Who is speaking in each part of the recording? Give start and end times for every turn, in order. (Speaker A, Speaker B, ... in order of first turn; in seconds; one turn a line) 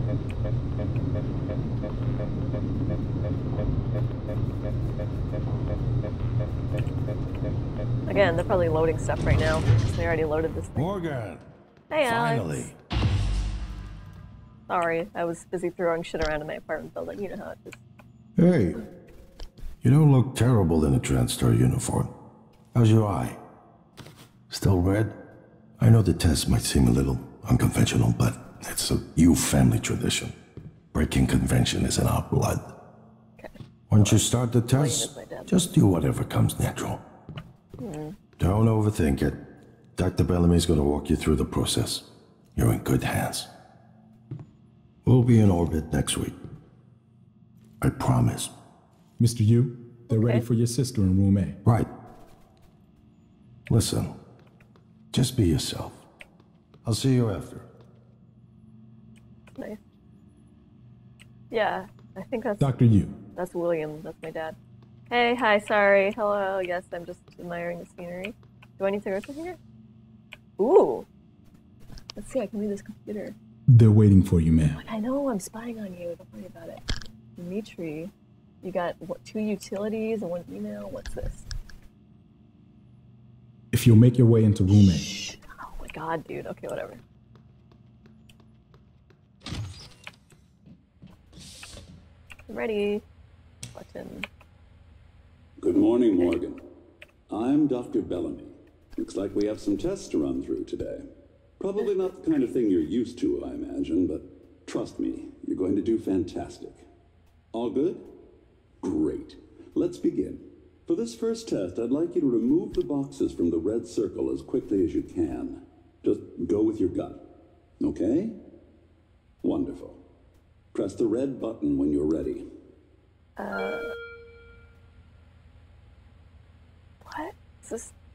Speaker A: 8.1-10.9
Speaker B: 10.7-11.4
Speaker A: 11.9-12.7
Speaker B: 12.0-12.8
Speaker A: 14.7-17.8
Speaker B: 18.4-18.8
Speaker B: 19.8-22.1
Speaker B: 22.7-23.4
Speaker B: 24.5-25.1
Speaker B: 25.8-30.3
Speaker B: 30.9-32.7
Speaker A: 33.4-35.7
Speaker B: 33.9-37.0
Speaker A: 37.8-38.2
Speaker B: 38.4-39.4
Speaker B: 40.0-43.5
Speaker B: 45.0-46.4
Speaker B: 47.8-48.5
Speaker C: 49.2-51.6
Speaker A: 50.1-50.4
Speaker B: 53.7-54.1
Speaker B: 55.1-56.0
Speaker B: 56.8-57.7
Speaker A: 61.5-62.8
Speaker C: 62.6-63.2
Speaker A: 63.3-64.6
Speaker A: 65.1-69.6
Speaker A: 70.6-71.1
Speaker A: 72.2-73.3
Speaker C: 73.7-74.8
Speaker A: 74.7-76.8
Speaker A: 77.4-81.5
Speaker C: 83.7-85.1
Speaker A: 85.3-87.0
Speaker A: 92.5-93.0
Speaker A: 93.7-94.3
Speaker D: 95.6-96.6
Speaker A: 95.7-96.3
Speaker D: 97.3-101.1
Speaker D: 101.6-106.8
Speaker A: 101.8-102.1
Speaker D: 107.5-108.1
Speaker D: 108.8-117.2
Speaker D: 117.8-118.4
Speaker D: 119.4-120.0
Speaker D: 120.7-122.5
Speaker A: 123.4-123.9
Speaker A: 127.0-127.9